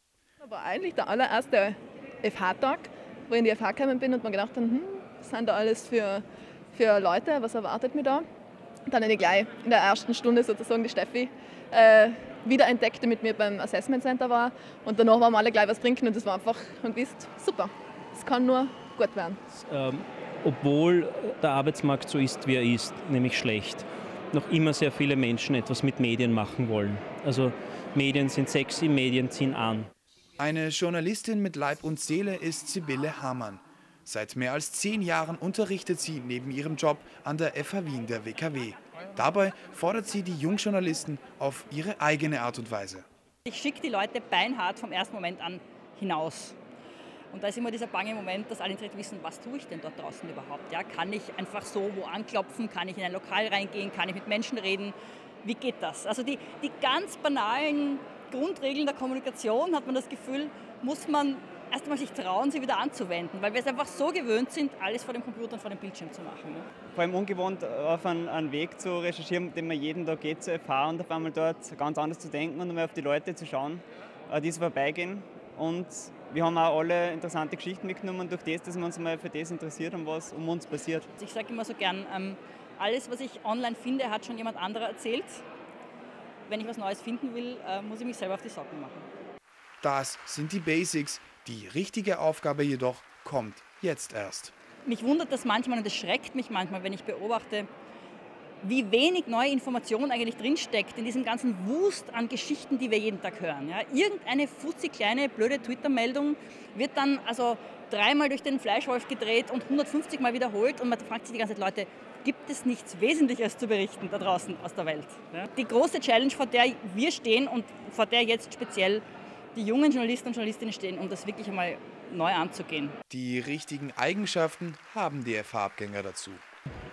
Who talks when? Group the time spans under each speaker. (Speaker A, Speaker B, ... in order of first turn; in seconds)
Speaker A: 0.4-6.2, 6.7-8.2, 8.9-19.4
Speaker B: 19.5-29.9
Speaker C: 30.4-43.0, 89.8-94.5, 123.1-126.4
Speaker D: 43.5-46.5, 47.3-66.7, 81.2-85.4, 86.5-89.1, 94.8-97.7, 98.6-123.0
Speaker E: 66.9-81.1